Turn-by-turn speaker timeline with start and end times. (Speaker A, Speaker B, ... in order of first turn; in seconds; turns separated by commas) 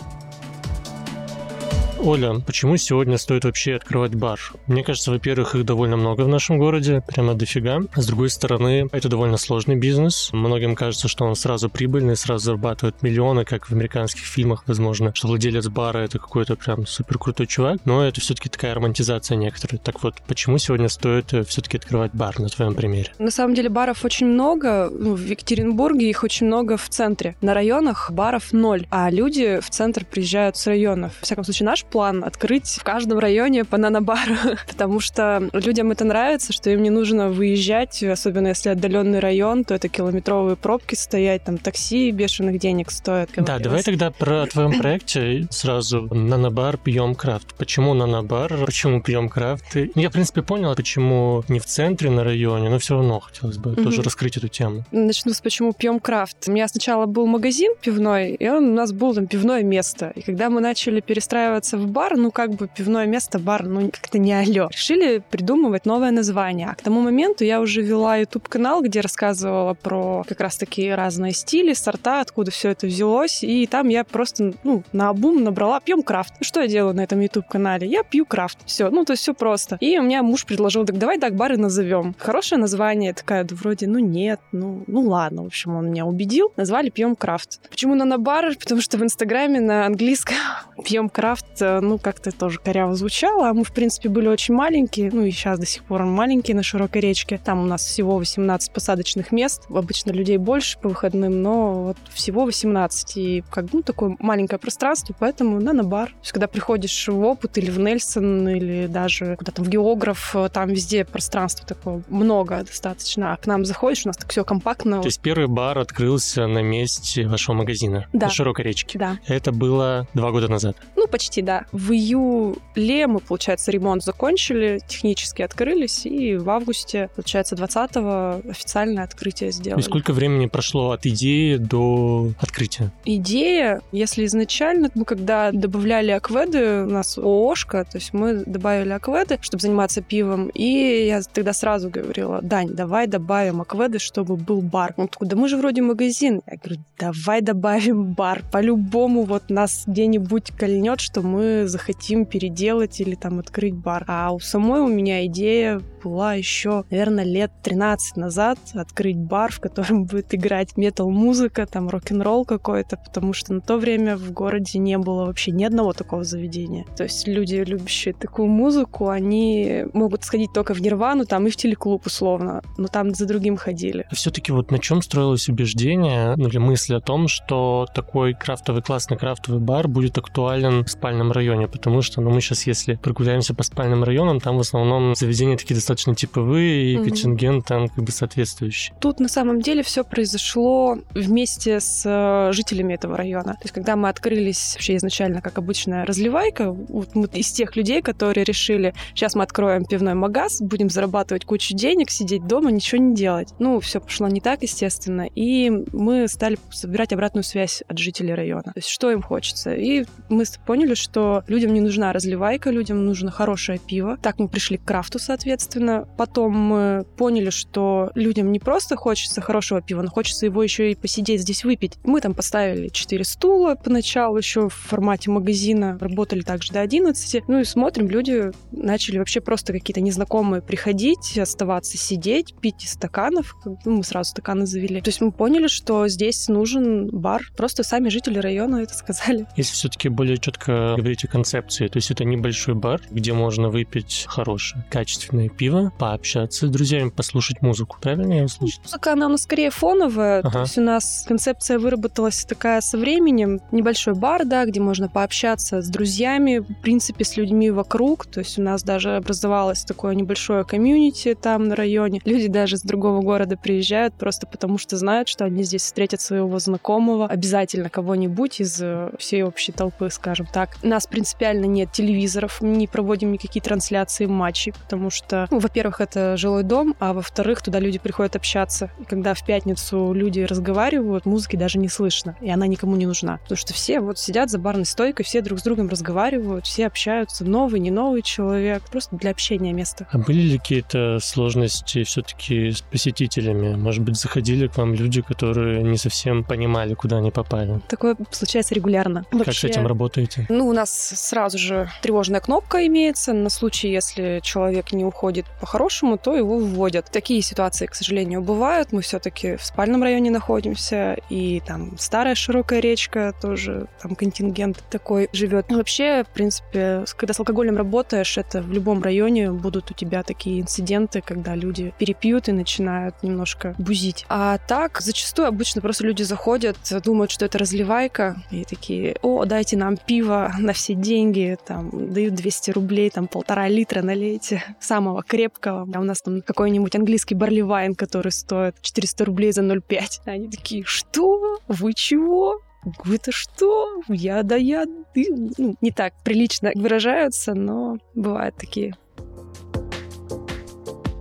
Speaker A: 2.0-23.1, Speaker B: 23.2-43.9, Speaker A: 43.4-54.9, Speaker B: 53.8-54.1, Speaker B: 54.9-115.1, Speaker A: 115.0-120.8, Speaker B: 118.1-118.4, Speaker B: 118.9-119.2, Speaker B: 120.9-130.0, Speaker A: 129.8-132.9, Speaker B: 133.0-174.1, Speaker A: 174.1-188.9, Speaker B: 186.9-187.3, Speaker B: 189.0-239.7, Speaker A: 239.6-248.8, Speaker B: 248.6-290.1, Speaker A: 250.4-250.7, Speaker A: 290.1-297.8, Speaker B: 297.8-299.9, Speaker A: 299.4-300.4, Speaker B: 300.5-348.9